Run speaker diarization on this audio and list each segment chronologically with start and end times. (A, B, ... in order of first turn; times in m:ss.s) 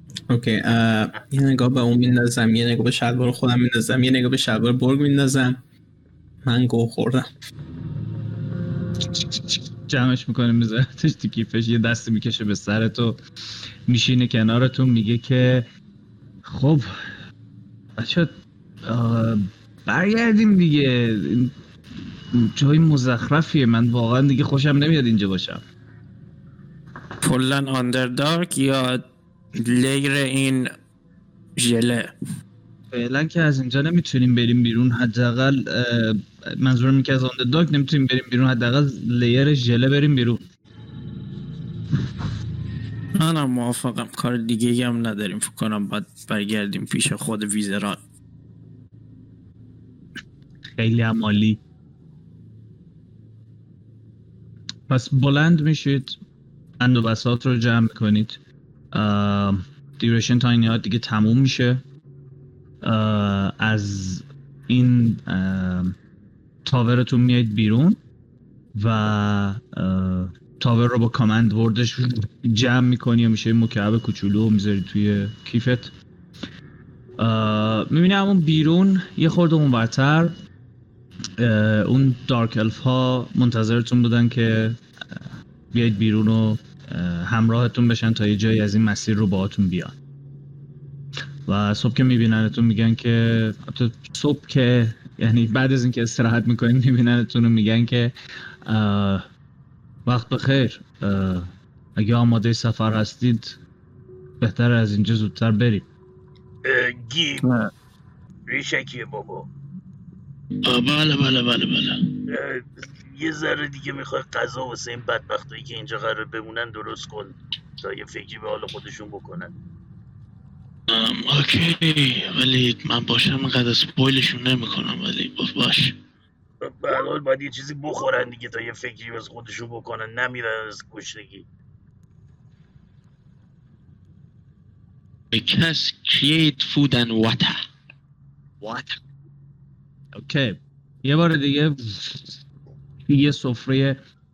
0:00.3-0:05.6 A
0:06.4-0:07.3 A
0:09.1-0:13.2 B
0:13.9-0:15.7 B
0:16.5-0:16.9 B
0:18.0-0:18.3 B
0:18.9-0:21.5 B
0:22.3-0:25.6 B
0:27.2-0:29.0 C
0:29.6-0:30.7 C
0:31.6-0:32.1 C
0:32.9-0:40.4 B
0:43.2-0:48.0 C
0:50.8-0:51.6 B
0:54.9-0:56.2 B
0:56.8-0:58.4 B
0:58.9-1:01.8 B
1:02.8-1:06.0 B
1:06.6-1:08.0 B
1:08.7-1:15.9 B
1:17.2-1:20.4 B
1:21.4-1:25.2 B
1:25.7-1:30.0 B
1:31.5-1:38.1 B
1:38.6-1:39.2 B
1:40.1-1:43.6 B
1:44.4-1:45.8 B
1:46.6-1:47.5 D
1:48.5-1:49.5 D
1:50.6-1:52.0 E
1:52.3-1:59.6 D
2:00.9-2:06.0 E
2:06.6-2:11.5 D
2:15.3-2:17.6 E
2:18.6-2:19.0 B
2:20.2-2:22.4 B
2:23.1-2:24.0 B